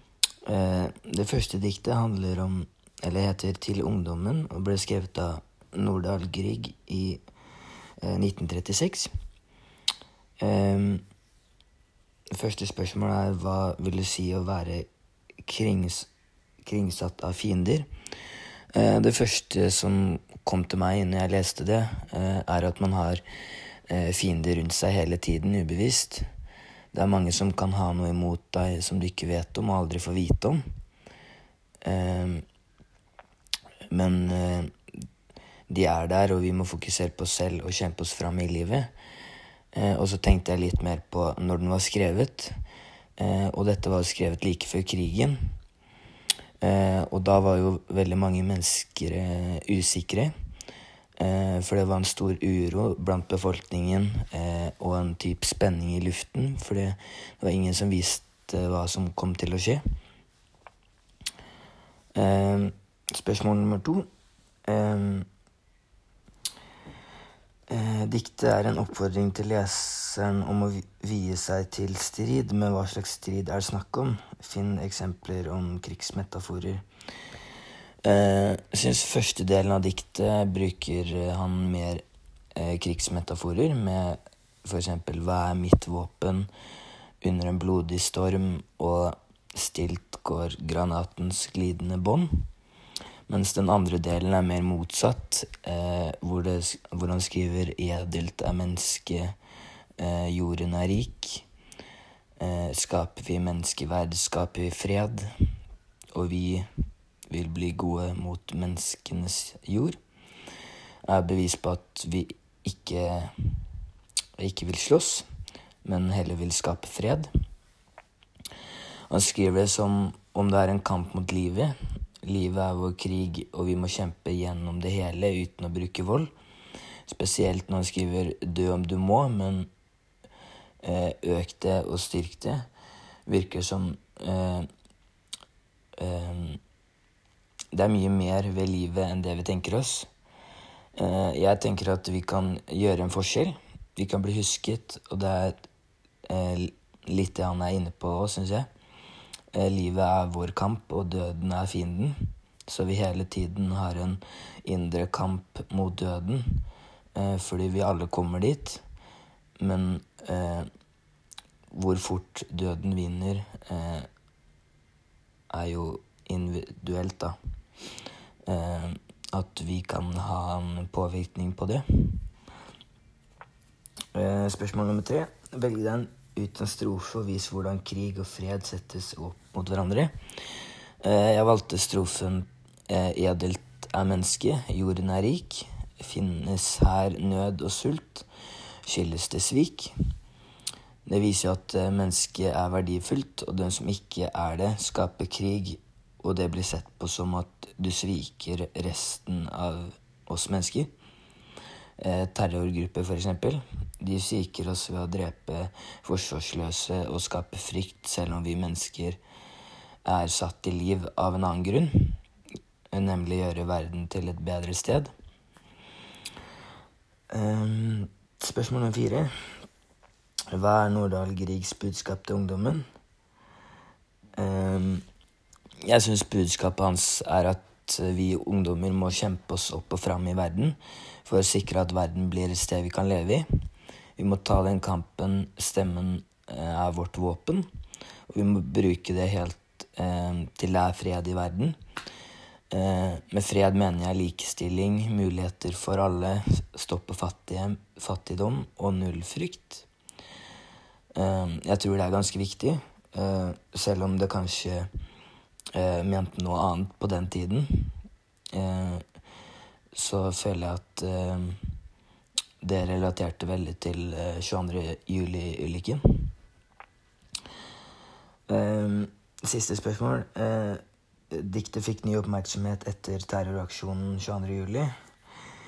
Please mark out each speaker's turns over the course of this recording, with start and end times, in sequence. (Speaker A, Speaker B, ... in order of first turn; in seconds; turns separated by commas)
Speaker A: 0.5-7.2, Speaker A: 8.0-9.1, Speaker A: 10.4-11.0, Speaker A: 12.3-14.9, Speaker A: 15.4-16.1, Speaker A: 16.6-17.9, Speaker A: 18.7-23.2, Speaker A: 23.9-26.3, Speaker A: 26.9-30.6, Speaker A: 31.8-32.5, Speaker A: 33.9-34.7, Speaker A: 35.7-38.9, Speaker A: 39.7-42.5, Speaker A: 43.2-45.5, Speaker A: 46.6-50.3, Speaker A: 51.2-59.8, Speaker A: 62.1-64.1, Speaker A: 64.7-65.3, Speaker A: 67.7-76.8, Speaker A: 78.0-82.0, Speaker A: 82.5-86.5, Speaker A: 87.2-92.5, Speaker A: 93.3-99.4, Speaker A: 100.0-101.5, Speaker A: 102.4-105.3, Speaker A: 106.1-106.7, Speaker A: 107.3-110.0, Speaker A: 111.1-113.5, Speaker A: 114.4-115.2, Speaker A: 115.8-117.3, Speaker A: 119.1-126.3, Speaker A: 127.1-129.7, Speaker A: 130.8-132.7, Speaker A: 133.3-134.7, Speaker A: 136.0-136.6, Speaker A: 137.7-140.1, Speaker A: 141.0-145.7, Speaker A: 146.3-148.7, Speaker A: 149.5-156.6, Speaker A: 157.2-158.8, Speaker A: 159.6-160.7, Speaker A: 161.7-164.1, Speaker A: 165.5-167.4, Speaker A: 168.5-172.2, Speaker A: 174.1-180.1, Speaker A: 181.0-188.3, Speaker A: 188.9-189.9, Speaker A: 191.1-200.9, Speaker A: 202.0-209.2, Speaker A: 210.1-212.2, Speaker A: 212.9-215.1, Speaker A: 217.3-219.3, Speaker A: 220.5-222.8, Speaker A: 224.3-225.1, Speaker A: 225.8-233.5, Speaker A: 234.2-237.7, Speaker A: 238.3-241.8, Speaker A: 242.7-249.9, Speaker A: 251.2-254.9, Speaker A: 255.7-257.9, Speaker A: 258.5-259.0, Speaker A: 259.9-261.6, Speaker A: 262.6-266.3, Speaker A: 268.5-274.9